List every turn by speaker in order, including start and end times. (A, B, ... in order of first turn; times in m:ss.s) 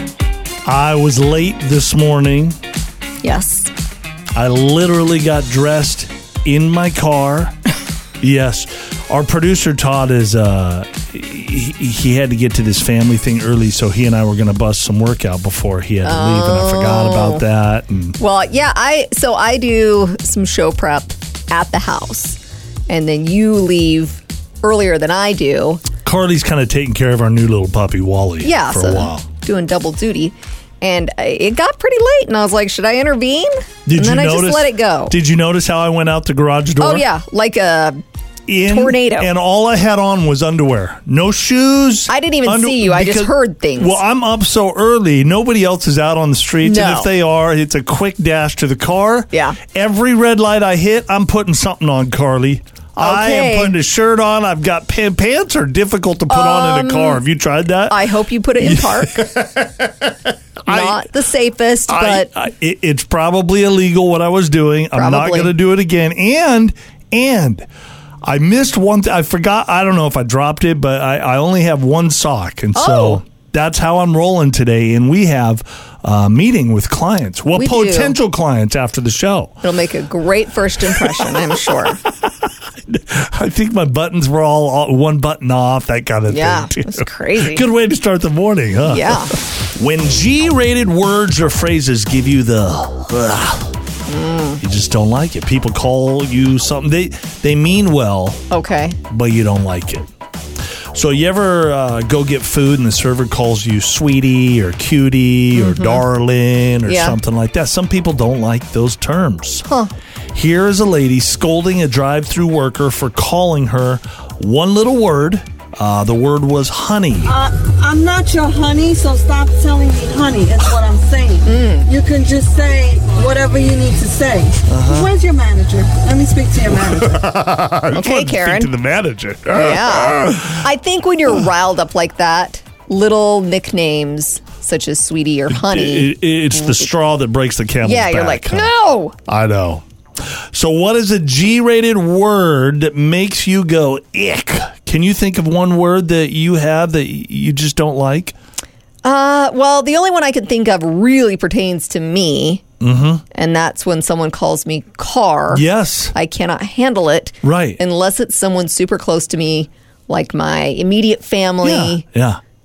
0:00.6-0:02.6 A
0:03.2-0:03.7 B
0:04.4-0:07.6 A
0:08.2-0:18.2 A
0:16.0-0:17.4 B
0:18.2-0:25.8 B
0:26.0-0:29.2 A
0:28.4-0:35.2 B
0:33.9-0:37.1 A
0:36.8-0:38.0 B
0:38.5-0:58.1 A
0:38.7-0:39.3 B
0:42.1-0:44.0 B
0:46.6-0:47.1 B
0:49.3-0:49.6 B
0:53.0-0:53.8 B
0:56.3-0:57.2 B
0:57.9-0:59.3 B
0:58.6-1:01.0 A
1:00.7-1:02.3 B
1:01.9-1:07.7 A
1:05.0-1:05.5 B
1:08.2-1:19.6 A
1:12.8-1:13.2 B
1:17.5-1:18.2 B
1:19.6-1:22.0 B
1:20.9-1:21.3 A
1:22.2-1:33.7 A
1:26.3-1:27.6 B
1:28.9-1:29.3 B
1:34.1-1:34.6 B
1:34.6-1:38.4 A
1:38.5-1:39.0 B
1:39.1-1:40.1 A
1:40.9-1:49.7 A
1:45.5-1:46.0 B
1:46.9-1:47.2 B
1:49.7-1:49.9 B
1:50.3-1:57.4 A
1:57.2-2:07.3 C
2:01.5-2:01.9 B
2:04.7-2:05.2 A
2:06.7-2:10.6 A
2:07.9-2:08.7 B
2:09.5-2:16.8 B
2:15.5-2:18.7 A
2:17.8-2:19.2 B
2:19.3-2:28.4 A
2:29.0-2:32.6 B
2:32.8-2:33.2 A
2:33.3-2:42.0 B
2:35.5-2:36.1 A
2:37.4-2:37.8 A
2:41.6-2:42.4 A